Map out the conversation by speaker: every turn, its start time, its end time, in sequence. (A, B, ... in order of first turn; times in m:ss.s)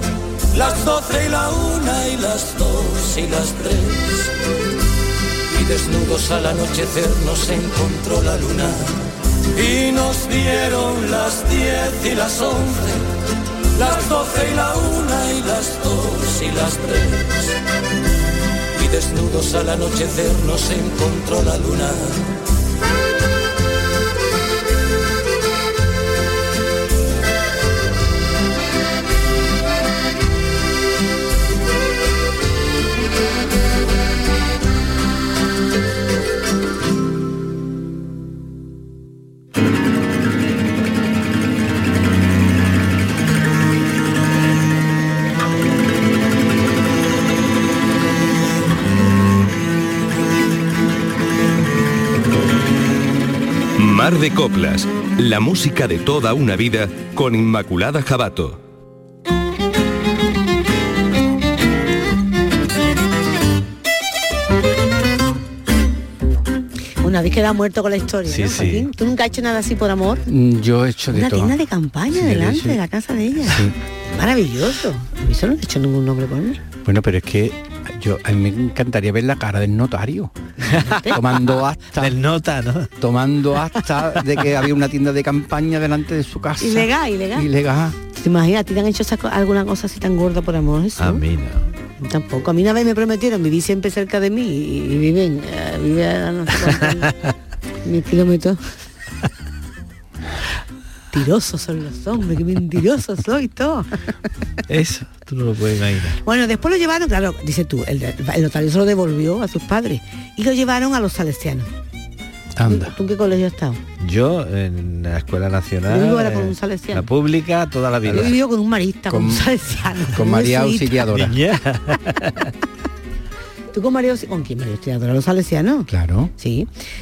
0:00.6-0:04.3 A
0:05.5-0:08.8 A
0:09.6-0:13.0 A
0:13.8-0:17.5 A
0:18.8-0:22.1 A
0:53.8-0:58.6 B
1:07.0-1:10.3 C
1:08.3-1:08.9 D
1:10.3-1:11.6 E
1:11.1-1:16.6 C
1:12.1-1:12.8 E
1:13.5-1:13.7 E
1:16.8-1:20.4 E
1:20.7-1:21.2 C
1:21.0-1:21.4 D
1:21.1-1:22.2 E
1:21.9-1:22.9 D
1:23.0-1:28.0 E
1:26.6-1:27.5 C
1:28.1-1:31.3 C
1:31.0-1:31.6 D
1:32.0-1:37.2 C
1:37.8-1:38.7 C
1:41.1-1:43.9 C
1:44.7-1:46.2 D
1:46.2-1:51.7 C
1:52.6-1:52.9 E
1:52.7-1:53.8 C
1:54.0-1:58.4 D
1:55.9-1:57.1 C
1:58.0-2:01.1 C
1:59.1-1:59.6 E
2:00.1-2:01.4 E
2:01.1-2:02.5 D
2:03.7-2:06.7 C
2:05.9-2:06.3 E